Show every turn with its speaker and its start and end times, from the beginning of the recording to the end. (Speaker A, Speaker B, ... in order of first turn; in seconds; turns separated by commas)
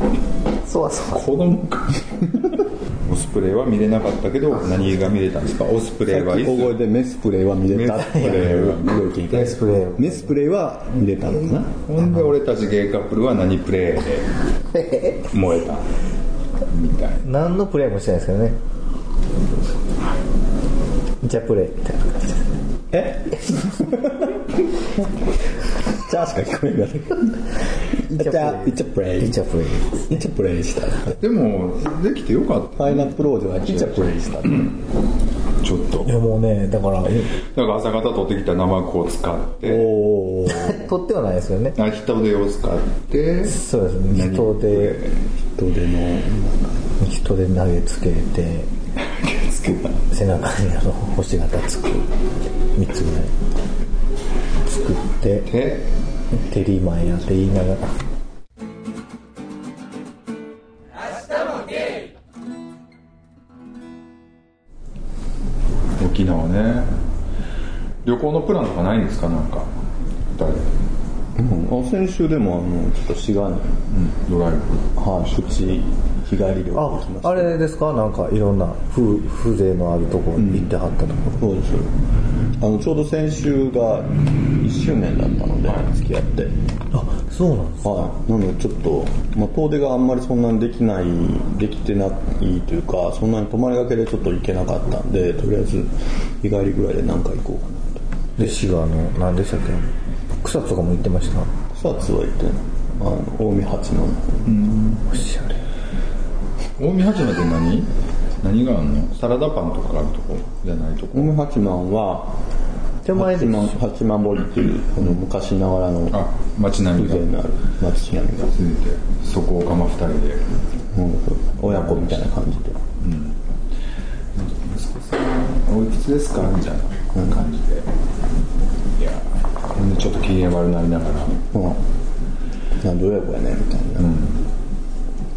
Speaker A: 0.6-1.3, Speaker B: 1.1-6.8, Speaker A: 4.5-5.2, Speaker C: 6.1-11.7, Speaker B: 7.7-9.6, Speaker A: 8.0-8.5, Speaker A: 9.4-10.4, Speaker B: 11.3-14.3, Speaker A: 12.0-12.3, Speaker A: 14.7-15.3, Speaker B: 15.3-15.9, Speaker B: 16.7-17.3, Speaker A: 17.2-18.6, Speaker A: 21.2-22.4, Speaker C: 22.9-24.1, Speaker C: 25.8-29.4, Speaker A: 28.2-30.2, Speaker C: 30.1-31.2, Speaker B: 31.2-34.6, Speaker C: 32.8-34.8, Speaker B: 35.6-36.1, Speaker A: 36.0-37.3, Speaker B: 37.5-39.9, Speaker C: 39.6-40.8, Speaker A: 40.5-41.8, Speaker B: 41.8-43.6, Speaker A: 43.5-45.0, Speaker B: 44.1-45.2, Speaker C: 45.5-46.6, Speaker A: 47.0-48.7, Speaker B: 49.1-50.0, Speaker A: 50.1-52.1, Speaker A: 52.7-53.3, Speaker A: 54.6-55.5, Speaker B: 55.5-55.9, Speaker A: 56.4-57.9, Speaker B: 66.0-66.9, Speaker B: 68.0-69.7, Speaker B: 70.3-70.7, Speaker C: 71.4-73.8, Speaker B: 73.9-75.8, Speaker C: 75.0-77.6, Speaker A: 76.7-81.5, Speaker C: 80.4-80.7, Speaker C: 81.4-81.9, Speaker C: 82.6-86.5, Speaker B: 85.6-85.9, Speaker A: 86.9-88.1, Speaker C: 87.8-98.5, Speaker A: 98.4-99.9, Speaker A: 100.4-101.5, Speaker C: 101.7-104.5, Speaker B: 104.5-105.1, Speaker A: 105.1-105.6, Speaker B: 106.8-111.4, Speaker C: 111.1-112.4, Speaker A: 113.0-113.8, Speaker C: 113.1-116.2, Speaker B: 116.1-117.3, Speaker C: 117.0-118.5, Speaker B: 118.5-120.4, Speaker C: 120.9-122.8, Speaker B: 121.6-122.3, Speaker B: 123.0-123.3, Speaker B: 124.4-127.9, Speaker B: 129.0-131.5, Speaker C: 131.5-131.8, Speaker C: 132.8-134.1, Speaker B: 134.0-134.4